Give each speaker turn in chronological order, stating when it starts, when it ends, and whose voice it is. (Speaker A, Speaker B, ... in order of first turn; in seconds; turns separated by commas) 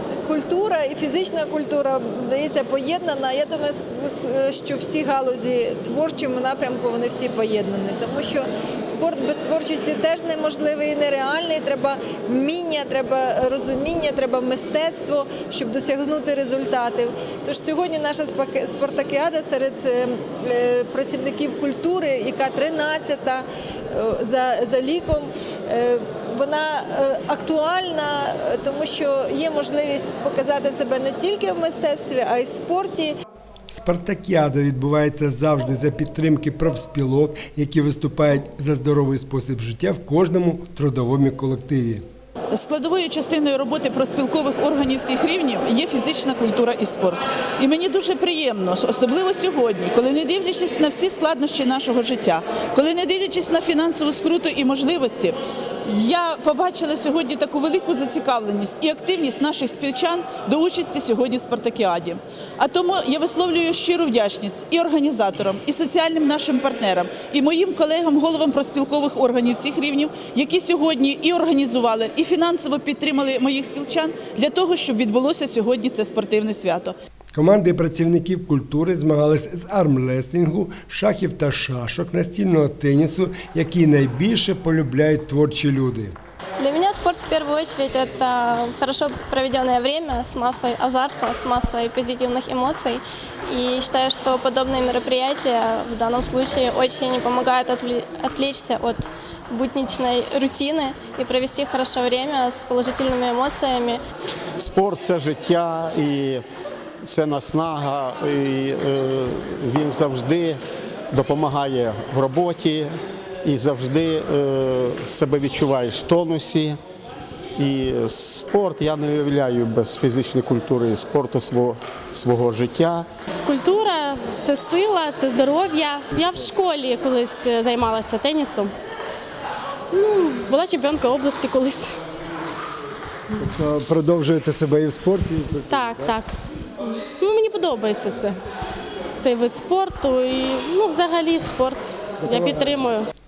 Speaker A: 0.2-33.1, Speaker B: 33.7-42.0, Speaker C: 42.5-76.9, Speaker B: 77.3-86.1, Speaker D: 86.6-104.0, Speaker E: 104.6-106.4, Speaker E: 107.0-112.9, Speaker E: 113.4-116.8, Speaker E: 117.6-123.1, Speaker F: 123.4-128.7, Speaker F: 129.9-132.0, Speaker B: 133.3-136.2, Speaker F: 135.7-138.4, Speaker F: 139.2-143.1, Speaker B: 142.2-142.7